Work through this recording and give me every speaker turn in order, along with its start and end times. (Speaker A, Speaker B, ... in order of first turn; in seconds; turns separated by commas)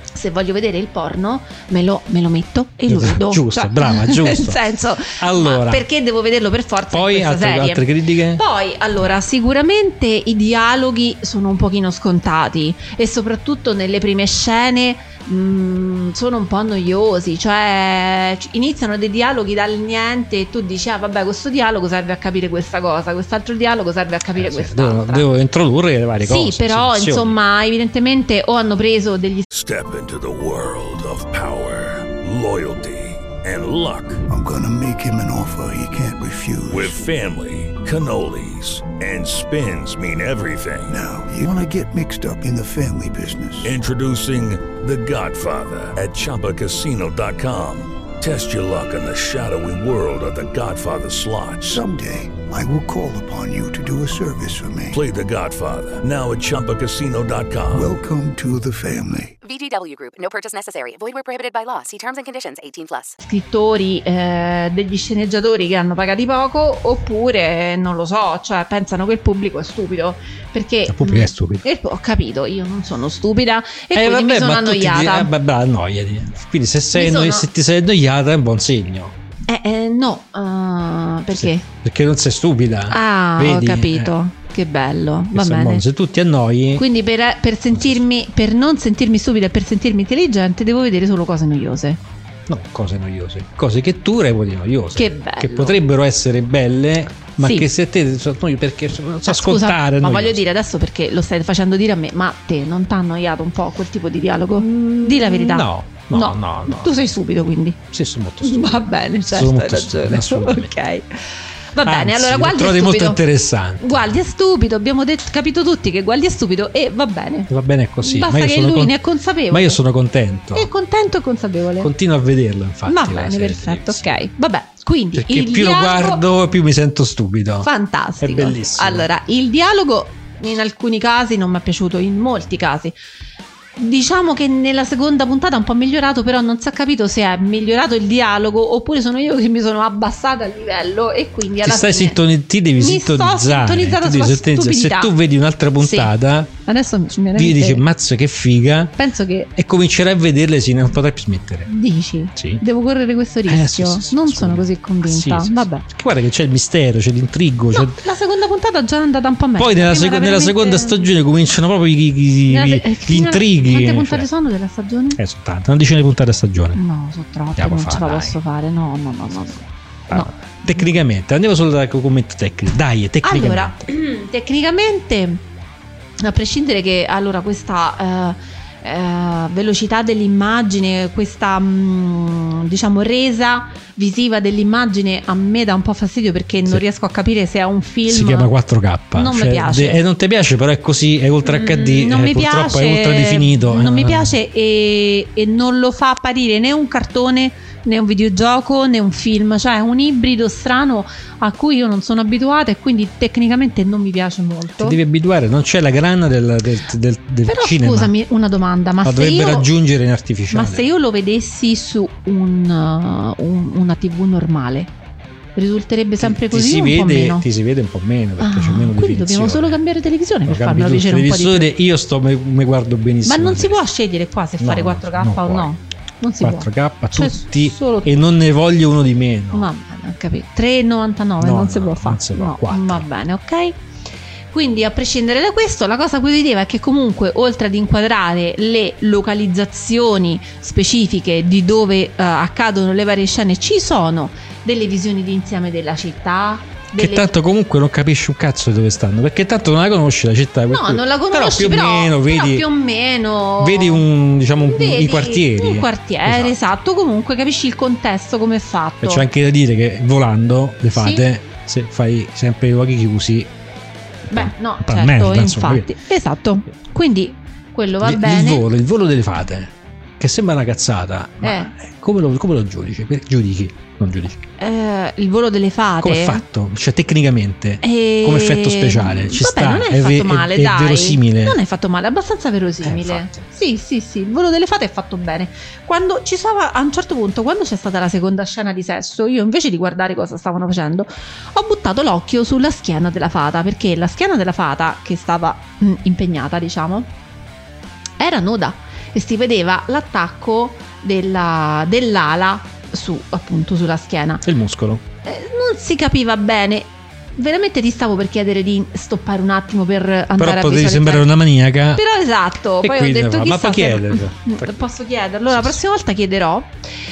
Speaker A: 0.1-25.3, Speaker B: 2.9-5.9, Speaker B: 6.9-8.4, Speaker B: 24.4-27.4, Speaker A: 26.2-29.5, Speaker C: 29.5-34.3, Speaker D: 34.3-37.0, Speaker C: 36.7-41.0, Speaker D: 40.9-43.7, Speaker C: 43.6-51.8, Speaker D: 51.6-55.0, Speaker C: 54.9-58.0, Speaker D: 57.7-59.4, Speaker E: 59.4-63.2, Speaker A: 63.2-75.3, Speaker B: 70.9-71.6, Speaker B: 73.9-79.2, Speaker A: 76.9-77.5, Speaker A: 79.5-81.7, Speaker B: 81.3-84.1, Speaker A: 82.9-85.8, Speaker B: 85.3-86.8, Speaker A: 86.8-92.0, Speaker B: 87.7-88.0, Speaker B: 92.5-100.4, Speaker A: 95.0-95.8, Speaker A: 97.4-97.7, Speaker A: 99.3-107.8, Speaker B: 104.6-107.0, Speaker B: 107.9-110.7, Speaker A: 108.4-111.2, Speaker A: 111.7-113.2, Speaker B: 111.8-114.1, Speaker A: 113.8-119.8, Speaker B: 117.5-119.0, Speaker B: 119.5-120.7, Speaker A: 120.5-121.9, Speaker B: 121.8-124.2, Speaker A: 122.9-126.2, Speaker B: 125.1-129.1, Speaker A: 127.6-132.9, Speaker A: 133.8-142.2, Speaker B: 141.6-146.5, Speaker A: 142.8-145.2, Speaker A: 145.8-146.1, Speaker A: 146.7-147.8, Speaker B: 147.3-149.0, Speaker A: 149.0-149.5, Speaker B: 149.6-151.7, Speaker A: 151.7-155.8, Speaker B: 152.3-152.6, Speaker B: 153.5-158.0, Speaker A: 157.7-161.1, Speaker B: 159.6-164.3, Speaker A: 162.5-165.2, Speaker B: 165.2-166.8, Speaker A: 166.8-170.3, Speaker B: 167.6-168.4, Speaker B: 170.1-173.9, Speaker A: 173.2-175.4, Speaker A: 176.2-188.5, Speaker B: 188.1-194.3, Speaker A: 189.1-190.0, Speaker A: 191.4-205.0, Speaker B: 204.8-208.1, Speaker A: 207.4-209.7, Speaker B: 209.0-210.9, Speaker A: 210.5-214.9, Speaker A: 215.6-217.5, Speaker B: 216.2-219.8, Speaker A: 218.4-221.7, Speaker B: 220.4-223.8, Speaker A: 223.2-228.1, Speaker B: 224.6-225.7, Speaker B: 226.4-229.7, Speaker A: 229.5-233.8, Speaker B: 231.4-233.1, Speaker A: 234.5-247.3, Speaker B: 246.9-252.7, Speaker A: 250.7-259.3, Speaker B: 253.6-256.6, Speaker B: 259.0-263.5, Speaker A: 260.9-261.2, Speaker A: 264.3-268.7, Speaker B: 264.3-265.9, Speaker B: 268.0-274.4, Speaker A: 271.4-271.7, Speaker A: 274.6-276.4, Speaker B: 276.0-281.6, Speaker A: 277.8-297.1, Speaker B: 282.8-283.5, Speaker A: 298.2-304.4, Speaker B: 304.4-305.0, Speaker A: 305.2-311.3, Speaker B: 310.4-312.0, Speaker A: 311.9-316.7, Speaker B: 312.8-314.8, Speaker B: 315.5-315.8